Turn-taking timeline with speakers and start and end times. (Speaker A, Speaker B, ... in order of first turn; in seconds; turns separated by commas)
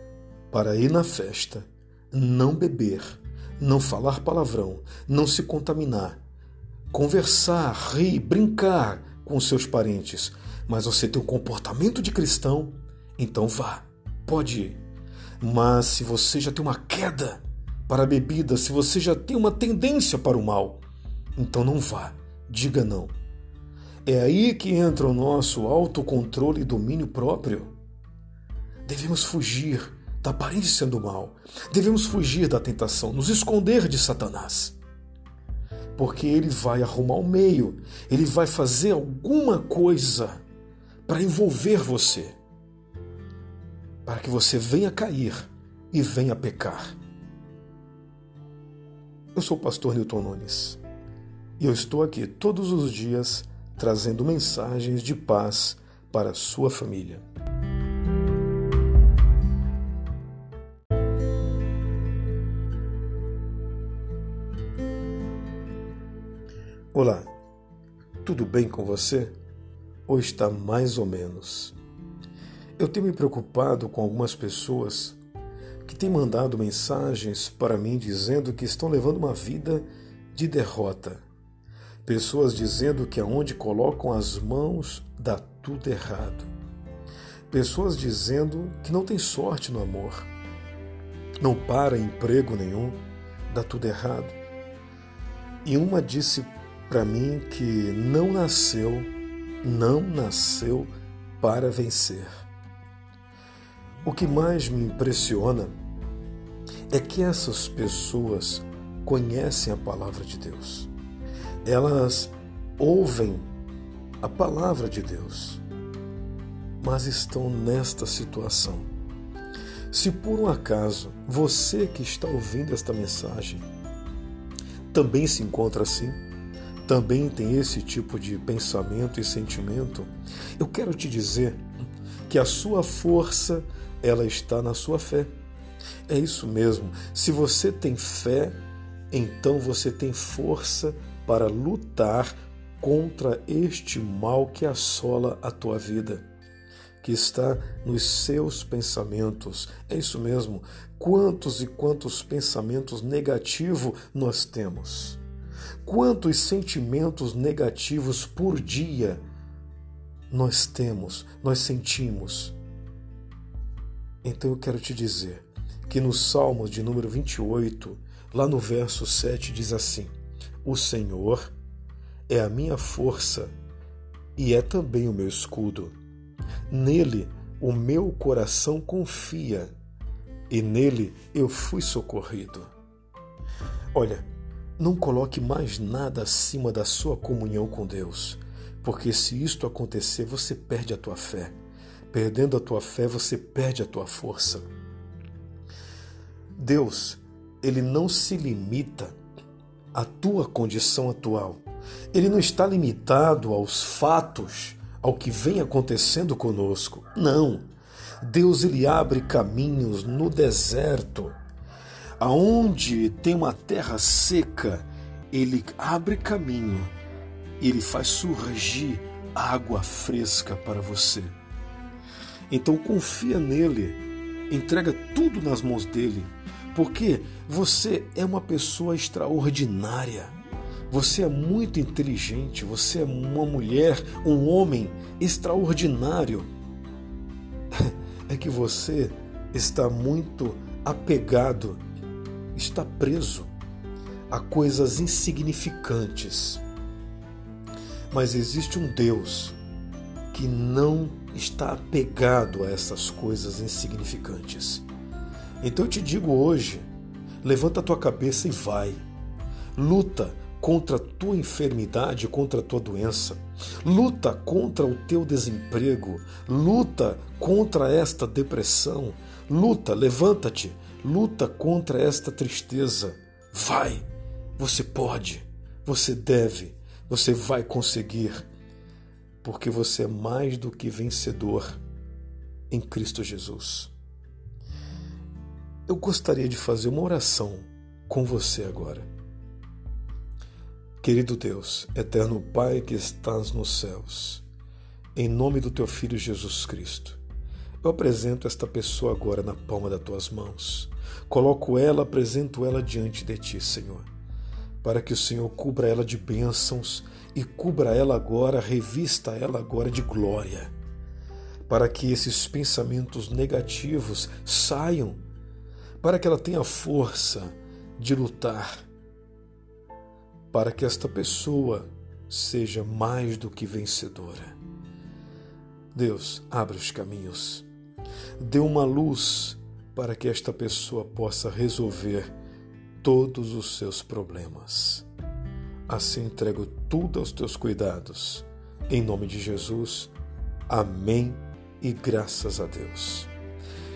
Speaker A: 0.5-6.2, Speaker A: 6.9-14.8, Speaker A: 15.4-20.8, Speaker A: 21.4-23.1, Speaker A: 24.1-27.8, Speaker A: 28.9-34.8, Speaker A: 36.0-40.4, Speaker A: 41.1-42.4, Speaker A: 44.0-47.0, Speaker A: 49.3-50.8, Speaker A: 51.6-57.2, Speaker A: 66.9-67.3, Speaker A: 68.2-69.4, Speaker A: 70.1-71.8, Speaker A: 72.8-75.2, Speaker A: 75.8-81.2, Speaker A: 82.0-86.5, Speaker A: 87.5-90.3, Speaker A: 91.4-94.4, Speaker A: 95.7-99.1, Speaker A: 99.6-102.5, Speaker A: 104.0-105.7, Speaker A: 106.9-110.9, Speaker A: 111.6-113.5, Speaker A: 114.2-115.6, Speaker A: 116.8-118.9, Speaker A: 119.9-123.7, Speaker A: 124.9-126.2, Speaker A: 126.8-131.7, Speaker A: 132.3-135.3, Speaker A: 136.1-138.6, Speaker A: 139.1-146.3, Speaker A: 147.0-155.2, Speaker A: 155.8-159.2, Speaker A: 160.3-162.6, Speaker A: 164.2-171.5, Speaker A: 172.3-173.5, Speaker A: 174.4-176.0, Speaker A: 176.7-179.7, Speaker A: 180.5-182.7, Speaker A: 183.9-191.6, Speaker A: 192.1-194.7, Speaker A: 196.6-199.2, Speaker A: 199.9-207.7, Speaker A: 208.2-211.4, Speaker A: 212.2-216.9, Speaker A: 217.6-221.3, Speaker A: 222.5-230.3, Speaker A: 230.9-236.5, Speaker A: 237.8-241.8, Speaker A: 242.5-243.5, Speaker A: 244.3-246.6, Speaker A: 248.1-249.6, Speaker A: 250.3-254.8, Speaker A: 255.6-256.9, Speaker A: 257.4-259.1, Speaker A: 259.8-274.1, Speaker A: 274.6-278.5, Speaker A: 279.4-281.8, Speaker A: 282.7-283.9, Speaker A: 285.9-289.1, Speaker A: 291.0-294.4, Speaker A: 295.1-297.2, Speaker A: 297.8-304.1, Speaker A: 304.8-310.7, Speaker A: 311.7-315.2, Speaker A: 316.0-318.8, Speaker A: 320.5-324.6, Speaker A: 325.9-327.7, Speaker A: 328.4-332.3, Speaker A: 333.0-335.1, Speaker A: 335.9-340.1, Speaker A: 340.7-343.3